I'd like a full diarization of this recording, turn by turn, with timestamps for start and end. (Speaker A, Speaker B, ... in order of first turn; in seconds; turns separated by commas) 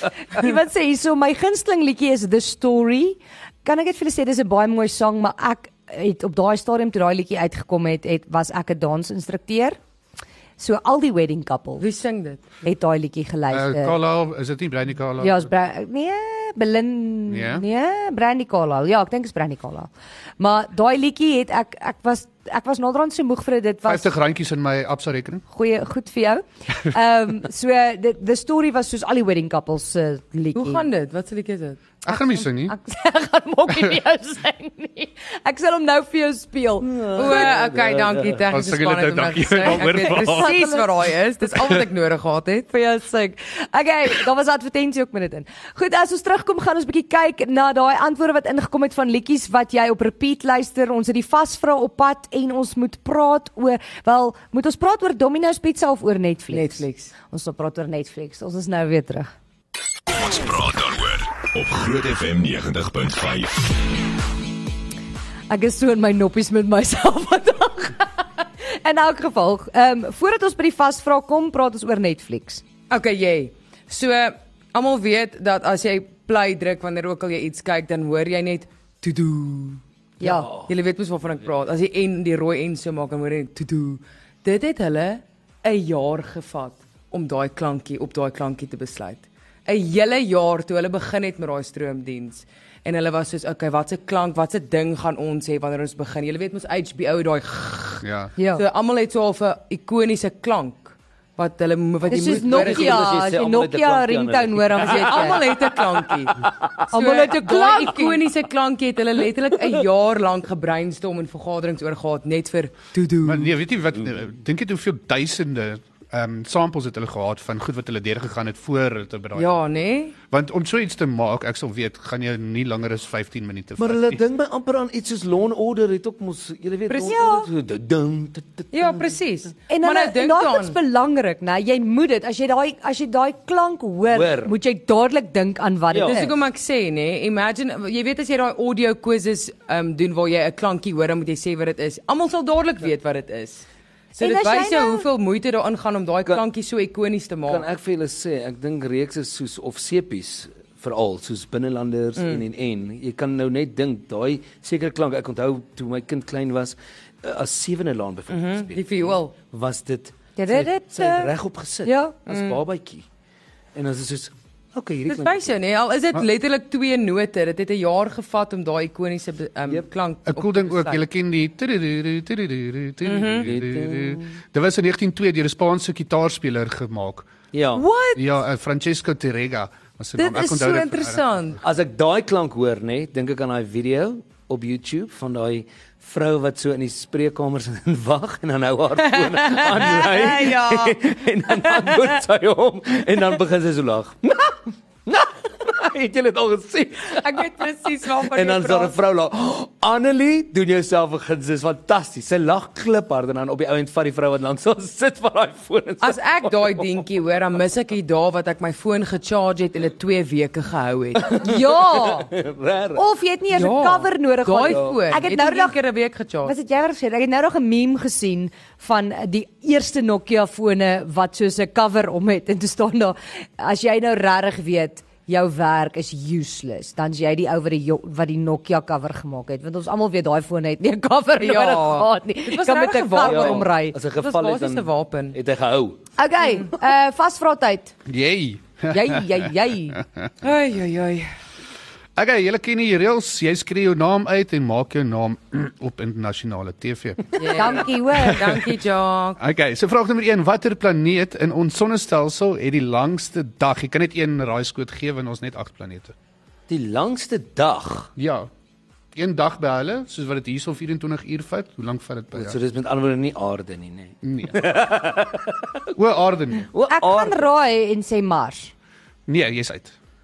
Speaker A: 0.2-9.8, Speaker A: 10.6-11.9, Speaker B: 11.8-12.4, Speaker A: 12.6-14.0, Speaker C: 13.5-15.5, Speaker A: 15.2-24.1, Speaker C: 17.3-17.6, Speaker C: 23.9-25.4, Speaker A: 25.5-30.8, Speaker B: 30.6-31.8, Speaker C: 32.0-32.8, Speaker A: 32.1-37.5, Speaker D: 36.8-38.6, Speaker B: 37.1-42.7, Speaker C: 38.5-40.5, Speaker A: 40.1-40.9, Speaker A: 42.7-59.3, Speaker B: 56.5-57.1, Speaker E: 60.1-64.0, Speaker A: 65.5-72.6, Speaker B: 72.9-103.1, Speaker A: 80.2-80.5, Speaker D: 80.2-80.7, Speaker C: 98.0-98.3, Speaker A: 98.4-98.6, Speaker A: 102.1-105.4, Speaker D: 102.1-105.4, Speaker B: 104.8-113.5, Speaker A: 106.9-108.2, Speaker C: 113.2-119.5, Speaker B: 119.3-120.2, Speaker C: 120.3-124.2, Speaker D: 123.8-129.1, Speaker B: 126.9-127.2, Speaker A: 127.1-127.5, Speaker B: 128.7-130.8, Speaker A: 129.7-136.3, Speaker D: 134.1-134.5, Speaker D: 135.9-136.3, Speaker B: 136.1-147.6, Speaker A: 144.2-145.1, Speaker D: 147.5-163.1, Speaker B: 152.2-152.4, Speaker B: 158.3-159.3, Speaker A: 160.4-161.3, Speaker A: 161.8-162.2, Speaker B: 162.3-162.6, Speaker D: 163.8-165.5, Speaker B: 165.1-171.0, Speaker C: 170.3-177.3, Speaker B: 173.1-173.5, Speaker D: 173.4-174.3, Speaker D: 177.5-177.8, Speaker B: 177.7-178.3, Speaker C: 178.2-181.6, Speaker B: 180.2-181.6, Speaker D: 181.6-197.5, Speaker B: 189.1-192.2, Speaker B: 197.1-199.0, Speaker D: 198.2-207.0, Speaker B: 206.0-211.4, Speaker D: 211.3-213.0, Speaker A: 211.4-212.3, Speaker A: 212.9-215.8, Speaker B: 213.5-216.5, Speaker D: 214.7-215.0, Speaker A: 216.4-234.0, Speaker B: 231.4-235.4, Speaker D: 233.2-236.0, Speaker A: 236.2-237.9, Speaker C: 238.1-240.3, Speaker A: 238.9-240.0, Speaker B: 240.4-241.3, Speaker C: 242.2-247.2, Speaker B: 247.4-249.4, Speaker A: 247.6-248.5, Speaker C: 248.2-248.6, Speaker C: 249.4-256.1, Speaker D: 256.7-258.1, Speaker C: 258.2-258.5, Speaker C: 259.1-262.6, Speaker D: 262.3-265.9, Speaker C: 264.2-264.6, Speaker C: 265.9-266.7, Speaker D: 266.7-267.5, Speaker A: 266.9-268.7, Speaker C: 269.3-269.9